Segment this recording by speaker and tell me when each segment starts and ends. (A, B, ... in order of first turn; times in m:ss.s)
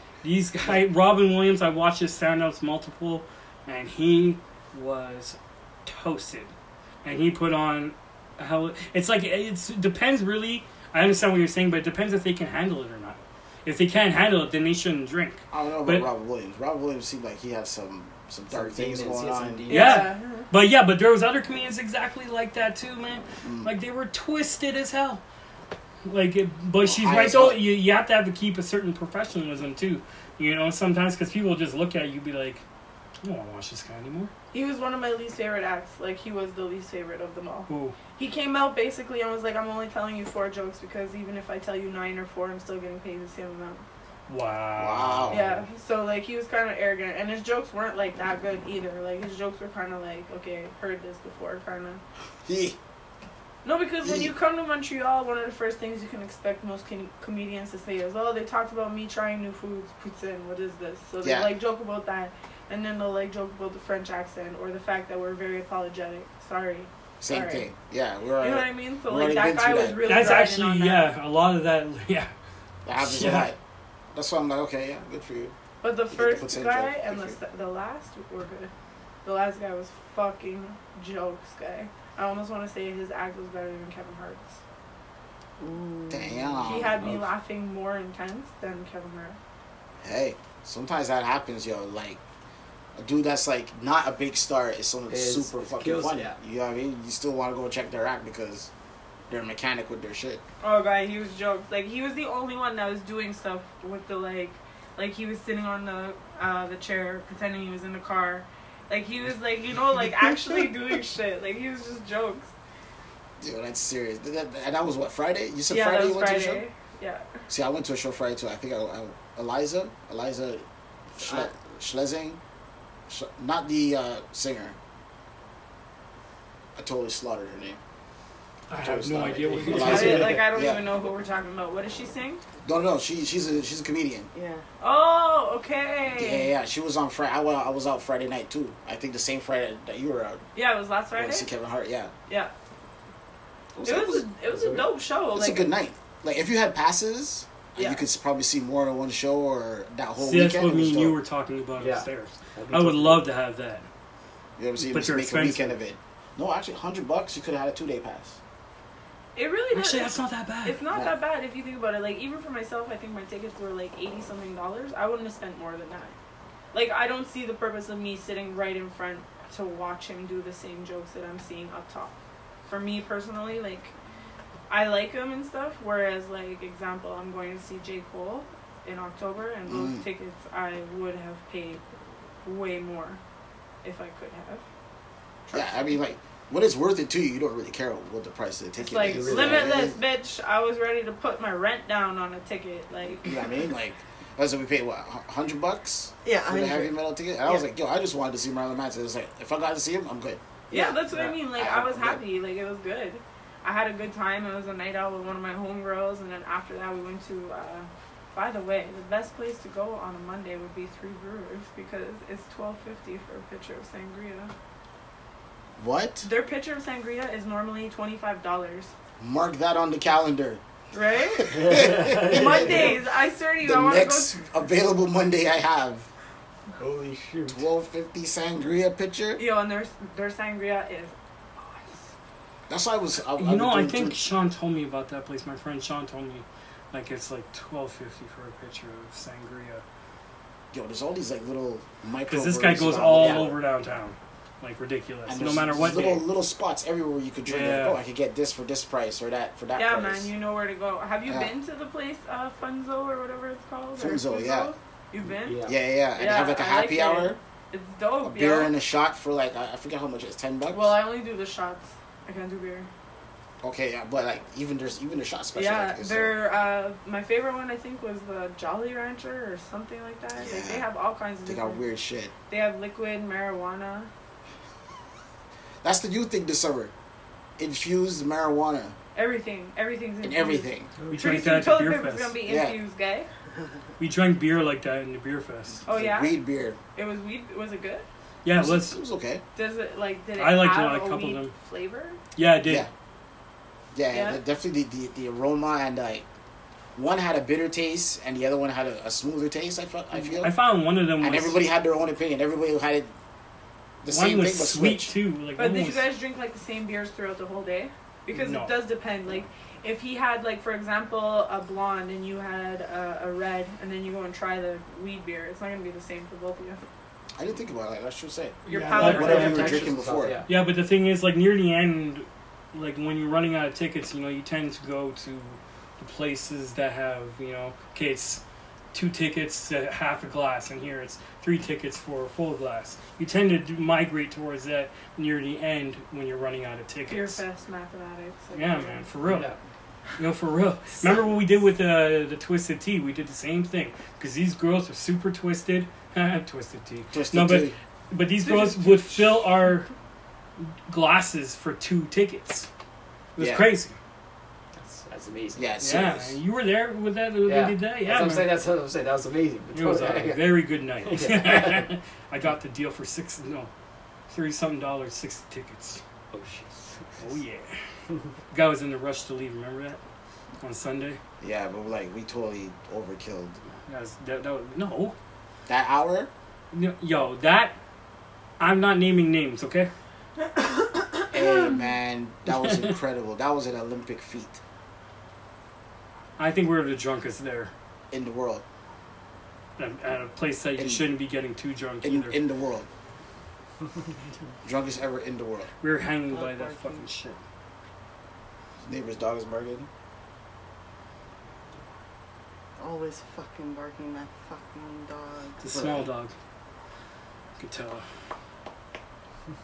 0:00.2-0:06.5 A
0:07.0-0:16.1 A
0:15.5-0:19.6 B
0:18.5-0:20.1 C
0:19.7-0:20.5 D
0:19.7-0:25.2 A
0:23.4-0:23.7 B
0:26.0-0:32.6 A
0:26.8-0:27.7 B
0:33.2-0:34.3 A
0:34.5-0:43.8 D
0:37.7-0:38.0 A
0:44.3-0:45.6 A
0:44.8-0:45.4 B
0:45.3-0:52.0 D
0:52.4-0:52.8 B
0:53.6-1:07.7 D
0:54.0-0:54.3 B
1:01.2-1:01.5 B
1:07.2-1:10.3 B
1:08.4-1:11.1 D
1:10.0-1:12.3 A
1:12.8-1:13.6 B
1:13.0-1:13.5 A
1:14.1-1:15.5 B
1:15.8-1:18.7 D
1:16.1-1:17.4 B
1:19.2-1:24.6 D
1:25.6-1:26.7 E
1:26.1-1:27.1 B
1:26.6-1:29.4 D
1:27.0-1:27.3 C
1:30.0-1:32.2 B
1:33.0-1:38.7 B
1:35.1-1:36.4 C
1:39.3-1:40.4 B
1:40.6-1:52.5 D
1:53.4-1:56.6 B
1:55.7-1:57.4 D
1:57.5-2:00.6 B
2:01.1-2:02.4 B
2:03.1-2:04.8 B
2:06.8-2:07.8 B
2:08.7-2:10.4 A
2:08.8-2:10.8 B
2:09.4-2:10.4 C
2:09.7-2:12.4 D
2:12.6-2:14.3 B
2:14.3-2:14.6 E
2:14.8-2:16.5 D
2:16.2-2:20.4 B
2:20.5-2:21.5 D
2:21.1-2:22.1 B
2:23.7-2:24.2 B
2:23.8-2:25.7 D
2:24.5-2:24.8 C
2:25.3-2:31.2 B
2:27.8-2:28.0 D
2:30.2-2:33.8 A
2:31.8-2:33.2 C
2:34.6-2:38.4 B
2:34.9-2:35.7 A
2:39.3-2:46.1 D
2:39.7-2:40.8 A
2:46.7-2:52.1 D
2:52.7-2:53.9 D
2:54.7-3:01.8 D
2:59.7-3:00.0 B
3:02.4-3:03.2 D
3:03.8-3:04.6 D
3:05.5-3:05.9 D
3:05.5-3:10.0 B
3:08.8-3:13.5 D
3:09.0-3:09.9 C
3:13.2-3:20.4 B
3:16.2-3:17.6 E
3:20.7-3:34.5 D
3:21.1-3:21.3 C
3:21.5-3:22.2 B
3:35.8-3:36.3 B
3:36.2-3:38.9 D
3:39.2-3:40.6 B
3:40.9-3:41.6 D
3:41.4-3:43.0 B
3:41.4-3:42.9 C
3:42.1-3:44.4 D
3:43.6-3:46.1 B
3:46.8-3:47.6 C
3:47.5-3:49.4 B
3:49.4-3:52.0 D
3:52.7-3:54.2 B
3:53.3-3:59.8 A
4:00.7-4:03.5 B
4:02.3-4:06.2 A
4:03.0-4:03.5 C
4:05.3-4:10.3 B
4:07.4-4:08.0 A
4:09.7-4:18.7 D
4:11.3-4:11.5 B
4:14.0-4:14.7 B
4:15.4-4:15.8 C
4:15.6-4:17.4 B
4:18.2-4:20.9 B
4:20.7-4:22.9 D
4:23.6-4:26.4 B
4:25.5-4:31.8 D
4:30.4-4:30.9 B
4:31.4-4:32.3 B
4:32.5-4:34.1 D
4:35.8-4:36.9 B
4:37.6-4:39.0 B
4:39.1-4:43.3 D
4:40.2-4:40.9 B
4:41.0-4:41.6 C
4:41.1-4:42.4 A
4:42.4-4:42.8 B
4:44.0-4:45.8 A
4:45.8-4:46.4 D
4:45.9-4:46.8 B
4:46.9-4:48.0 D
4:48.4-4:49.0 A
4:48.5-4:49.4 B
4:49.5-4:52.2 D
4:50.4-4:51.5 A
4:52.4-4:52.9 A
4:52.6-4:52.9 B
4:53.9-4:56.2 B
4:54.1-4:54.4 D
4:57.0-5:00.6 B
5:00.4-5:01.6 A
5:01.2-5:03.1 B
5:04.0-5:05.1 B
5:04.1-5:06.1 A
5:05.6-5:16.8 D
5:08.3-5:08.7 A
5:17.4-5:20.4 B
5:18.6-5:20.5 C
5:18.7-5:19.9 D
5:18.8-5:19.8 A
5:20.5-5:28.4 A
5:28.9-5:37.4 A
5:37.1-5:39.0 D
5:38.5-5:39.5 A
5:39.2-5:39.6 C
5:40.2-5:49.9 A
5:47.1-5:47.7 B
5:48.4-5:49.4 D
5:50.9-5:52.7 A
5:53.4-5:54.0 A
5:53.4-5:53.7 B
5:54.7-5:55.7 C
5:55.5-5:56.4 B
5:55.8-5:58.6 A
5:57.4-6:01.9 C
5:59.7-6:03.7 A
6:04.3-6:06.0 A
6:06.3-6:07.2 C
6:07.2-6:07.8 A
6:08.5-6:10.0 A
6:10.6-6:11.2 A
6:11.4-6:13.6 B
6:13.9-6:15.1 A
6:15.7-6:16.3 B
6:16.7-6:17.8 A
6:18.6-6:19.9 A
6:20.9-6:21.6 D
6:21.3-6:24.6 B
6:26.4-6:27.7 A
6:28.1-6:28.6 B
6:29.8-6:32.4 A
6:30.8-6:31.1 B
6:32.0-6:32.9 B
6:34.6-6:35.7 B
6:35.8-6:37.4 A
6:36.3-6:37.0 E
6:38.8-6:39.9 B
6:42.8-6:45.7 E
6:45.6-6:46.3 A
6:45.7-6:46.0 B
6:47.6-6:48.0 A